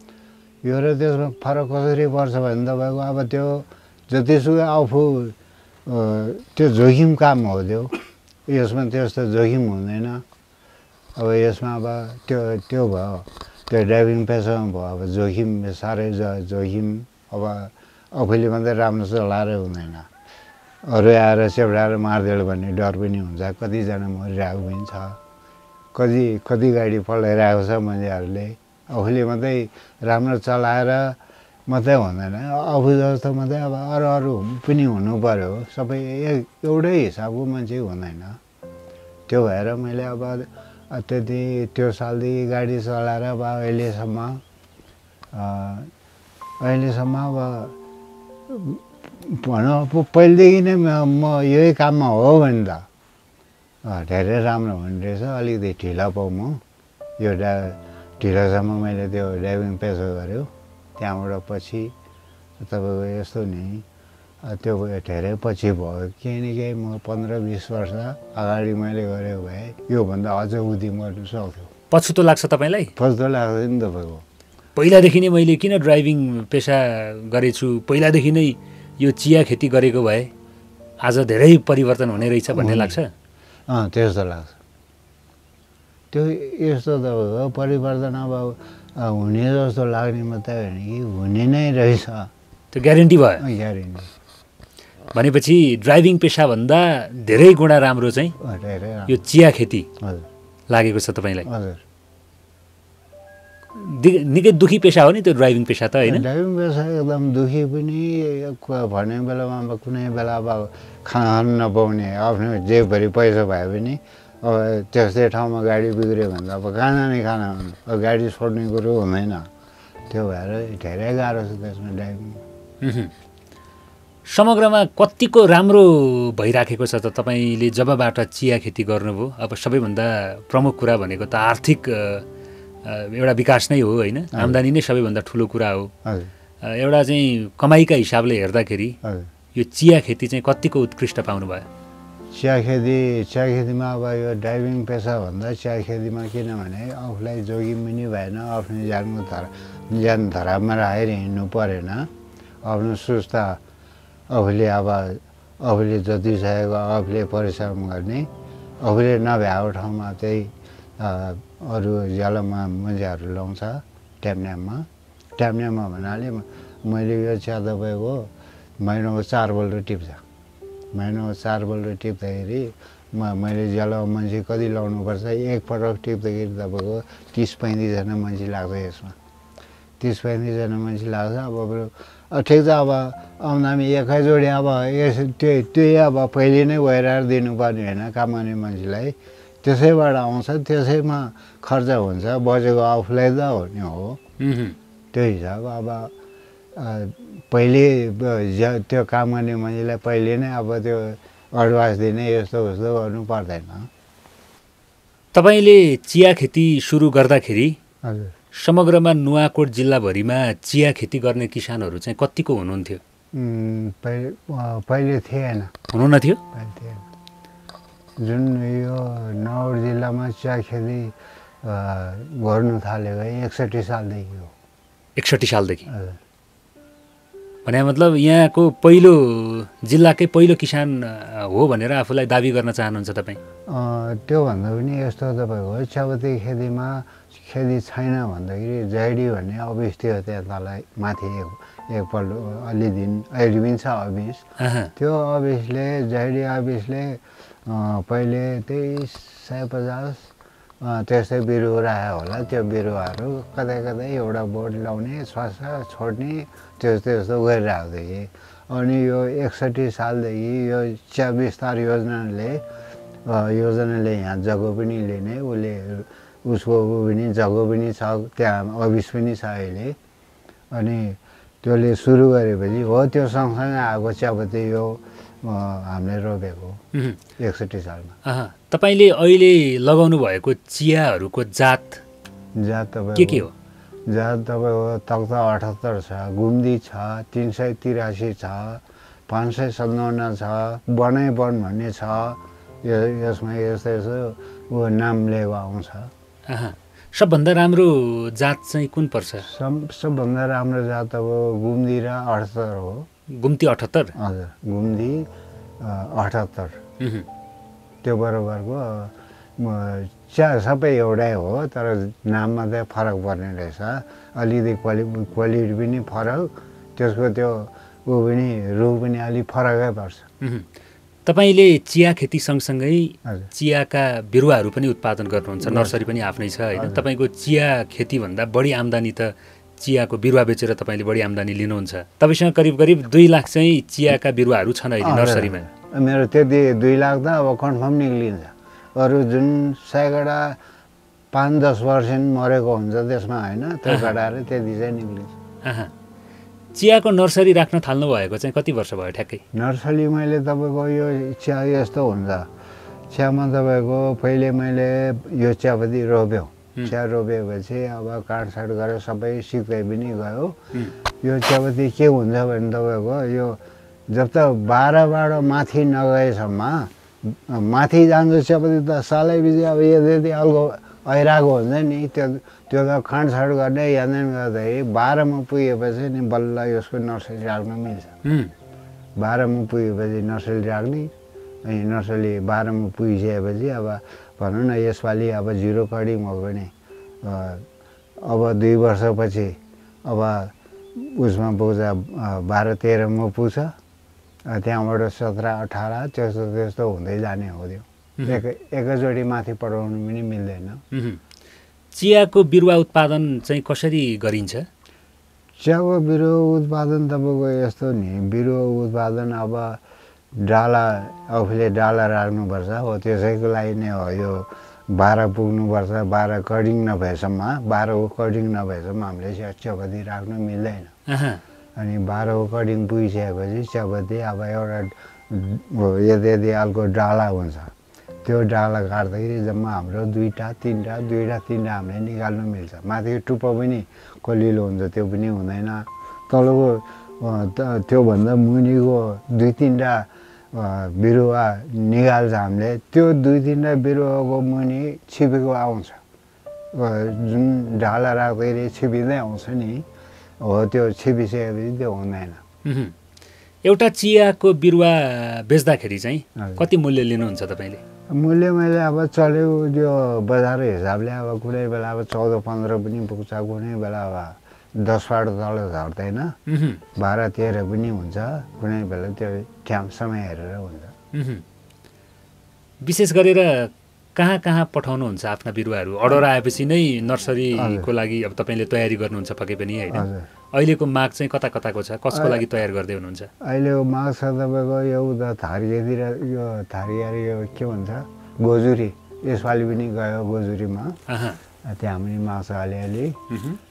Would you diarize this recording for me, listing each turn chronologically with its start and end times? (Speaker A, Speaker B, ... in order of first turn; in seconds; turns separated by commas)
Speaker A: 0.6-10.2, Speaker A: 11.2-20.1, Speaker A: 20.8-25.2, Speaker A: 25.9-38.4, Speaker A: 39.3-44.4, Speaker A: 45.3-45.9, Speaker A: 46.6-47.8, Speaker A: 48.5-52.9, Speaker A: 53.8-56.6, Speaker A: 57.2-61.9, Speaker A: 62.6-63.9, Speaker A: 64.4-71.7, Speaker B: 71.9-72.9, Speaker A: 73.0-74.2, Speaker B: 74.8-80.3, Speaker B: 81.0-83.1, Speaker A: 82.5-83.0, Speaker A: 83.7-84.6, Speaker A: 86.1-92.3, Speaker B: 92.7-93.4, Speaker A: 93.4-94.1, Speaker B: 95.1-98.3, Speaker A: 98.4-99.2, Speaker B: 99.1-99.9, Speaker A: 100.0-100.2, Speaker B: 100.7-101.5, Speaker A: 101.4-101.8, Speaker B: 103.7-106.2, Speaker A: 106.0-119.5, Speaker A: 120.1-122.4, Speaker B: 122.8-123.1, Speaker B: 124.2-132.2, Speaker B: 132.8-135.9, Speaker A: 134.3-134.6, Speaker A: 136.1-136.3, Speaker B: 136.6-139.0, Speaker A: 139.0-139.3, Speaker B: 139.6-141.7, Speaker A: 142.3-152.1, Speaker A: 152.6-153.6, Speaker A: 154.3-158.3, Speaker A: 158.8-170.2, Speaker A: 170.9-179.2, Speaker A: 180.0-194.2, Speaker B: 194.4-194.8, Speaker A: 195.1-196.1, Speaker A: 196.8-203.9, Speaker B: 205.3-207.8, Speaker A: 208.0-208.3, Speaker B: 208.5-213.0, Speaker A: 213.3-215.7, Speaker B: 215.9-216.4, Speaker A: 216.5-217.1, Speaker A: 218.2-224.5, Speaker B: 225.2-225.9, Speaker A: 225.9-226.2, Speaker B: 227.6-233.4, Speaker A: 233.7-244.4, Speaker B: 244.6-244.9, Speaker A: 244.9-250.3, Speaker A: 250.8-262.6, Speaker A: 263.2-270.0, Speaker A: 270.7-276.8, Speaker B: 276.9-277.2, Speaker A: 277.4-278.1, Speaker B: 278.2-282.0, Speaker A: 282.6-283.5, Speaker B: 283.1-283.5, Speaker A: 284.1-296.1, Speaker B: 296.5-299.5, Speaker A: 299.4-303.1, Speaker B: 303.3-304.1, Speaker A: 304.1-305.3, Speaker A: 305.8-306.8, Speaker B: 307.0-307.3, Speaker A: 308.0-320.2, Speaker B: 320.4-320.7, Speaker B: 321.2-335.7, Speaker A: 325.6-326.0, Speaker A: 326.8-327.1, Speaker A: 335.0-340.6, Speaker A: 341.3-345.3, Speaker B: 343.9-344.1, Speaker B: 345.6-345.9, Speaker B: 346.7-349.4, Speaker A: 349.5-352.5, Speaker A: 353.1-360.7, Speaker A: 361.2-378.2, Speaker B: 378.2-378.5, Speaker A: 379.1-381.1, Speaker A: 381.6-387.6, Speaker A: 388.2-393.7, Speaker A: 394.5-400.8, Speaker B: 398.2-398.4, Speaker B: 400.9-401.2, Speaker B: 401.9-404.7, Speaker A: 405.6-409.8, Speaker A: 410.3-420.9, Speaker B: 421.1-421.4, Speaker A: 421.8-427.7, Speaker A: 428.2-446.0, Speaker A: 446.7-449.9, Speaker A: 450.4-452.4, Speaker B: 452.6-452.9, Speaker B: 453.6-457.8, Speaker A: 456.4-456.6, Speaker A: 458.1-466.4, Speaker B: 466.5-466.8, Speaker A: 467.0-470.9, Speaker B: 471.1-471.4, Speaker B: 472.8-483.3, Speaker A: 477.5-477.9, Speaker A: 479.9-480.3, Speaker A: 482.1-482.4, Speaker A: 483.4-491.0, Speaker B: 491.1-491.4, Speaker A: 491.6-493.2, Speaker B: 493.3-493.6